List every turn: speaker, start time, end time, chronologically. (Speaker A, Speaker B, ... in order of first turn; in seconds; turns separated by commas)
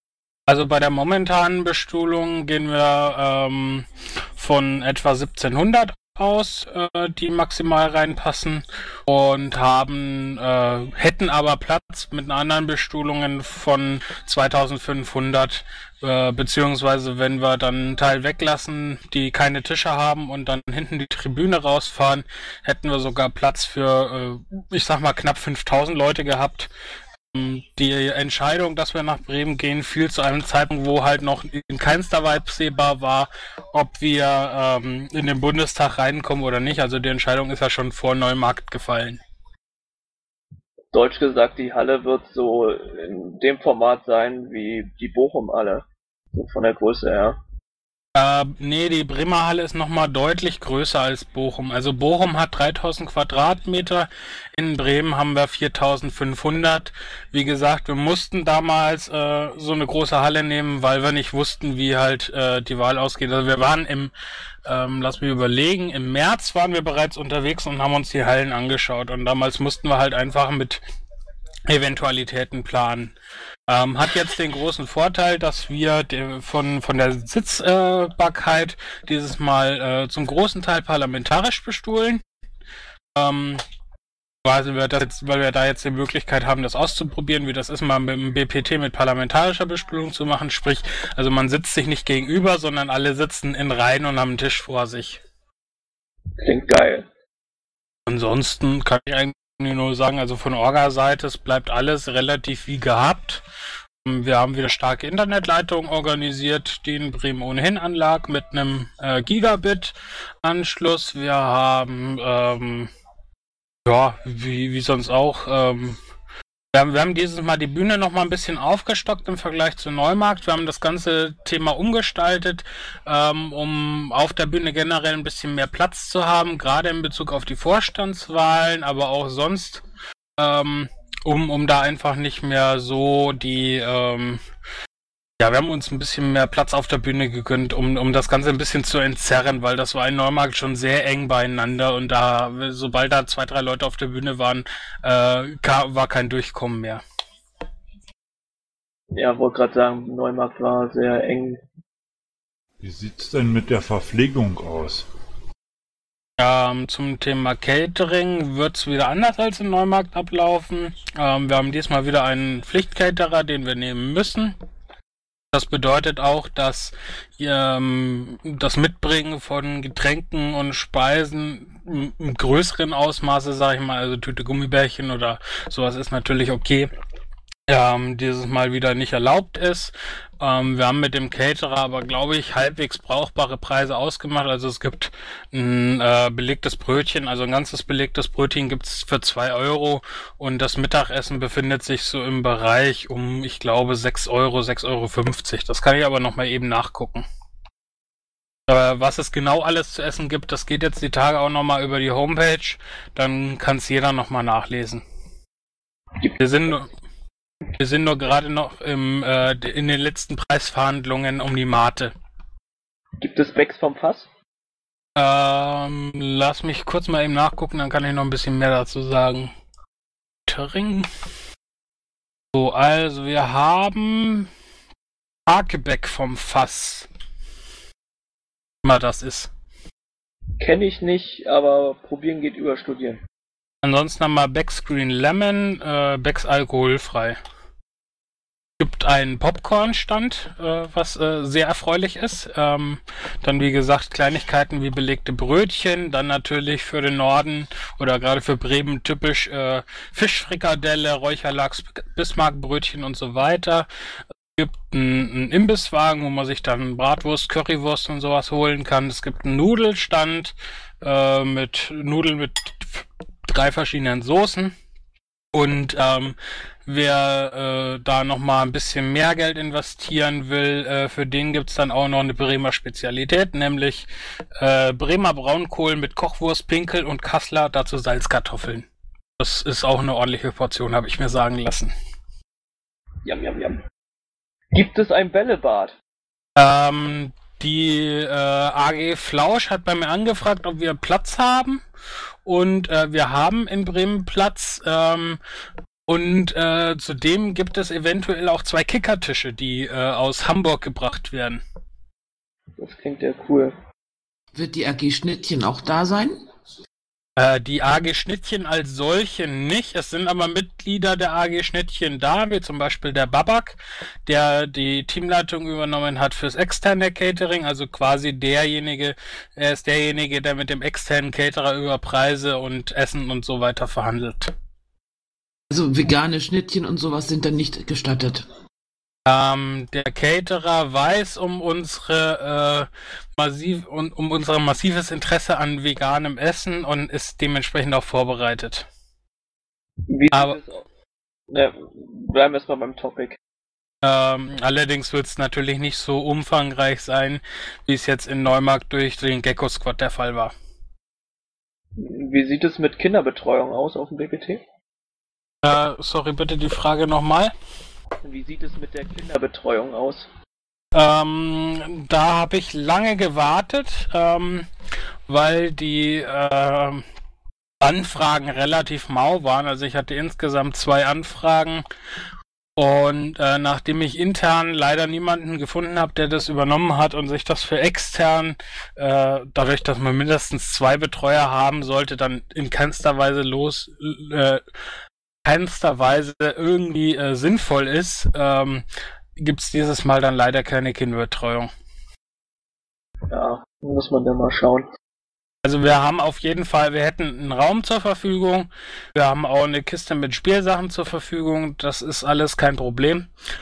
Speaker A: 0.5-26.7, Speaker A: 27.3-39.2, Speaker B: 40.9-47.4, Speaker A: 48.1-64.1, Speaker A: 64.7-70.8, Speaker A: 71.7-73.1, Speaker A: 73.7-82.2, Speaker A: 83.2-83.6, Speaker A: 84.4-95.2, Speaker B: 96.4-97.1, Speaker A: 98.1-103.4, Speaker A: 104.0-112.9, Speaker A: 113.8-116.0, Speaker A: 116.7-129.8, Speaker A: 130.4-134.4, Speaker A: 135.4-147.0, Speaker B: 149.1-151.6, Speaker C: 152.8-155.1, Speaker A: 156.4-164.6, Speaker A: 165.5-176.9, Speaker A: 177.7-197.2, Speaker A: 198.7-205.0, Speaker A: 206.4-206.9, Speaker A: 207.8-212.1, Speaker B: 213.2-214.3, Speaker A: 215.2-219.5, Speaker A: 220.4-221.1, Speaker A: 222.5-224.5, Speaker A: 225.5-227.1, Speaker A: 228.8-229.5, Speaker B: 230.6-233.2, Speaker A: 233.8-237.4, Speaker A: 238.8-253.9, Speaker A: 254.6-264.7, Speaker A: 265.5-274.1, Speaker A: 274.6-278.9, Speaker A: 279.4-281.9, Speaker B: 283.2-283.8, Speaker B: 284.7-285.9, Speaker A: 286.6-291.8, Speaker A: 292.4-295.4, Speaker A: 296.1-301.6, Speaker B: 302.8-303.8, Speaker D: 304.5-306.4, Speaker A: 307.4-324.5, Speaker D: 325.7-328.5, Speaker A: 329.3-338.9, Speaker B: 340.1-340.8, Speaker A: 340.3-340.6, Speaker B: 341.5-343.4, Speaker A: 344.0-350.5, Speaker B: 352.0-354.6, Speaker A: 355.6-357.5, Speaker B: 358.2-360.3, Speaker A: 360.9-364.7, Speaker A: 365.3-367.0, Speaker A: 367.8-371.8, Speaker A: 372.8-384.6, Speaker A: 385.4-388.8, Speaker A: 389.4-391.7, Speaker B: 393.3-394.9, Speaker A: 395.6-403.3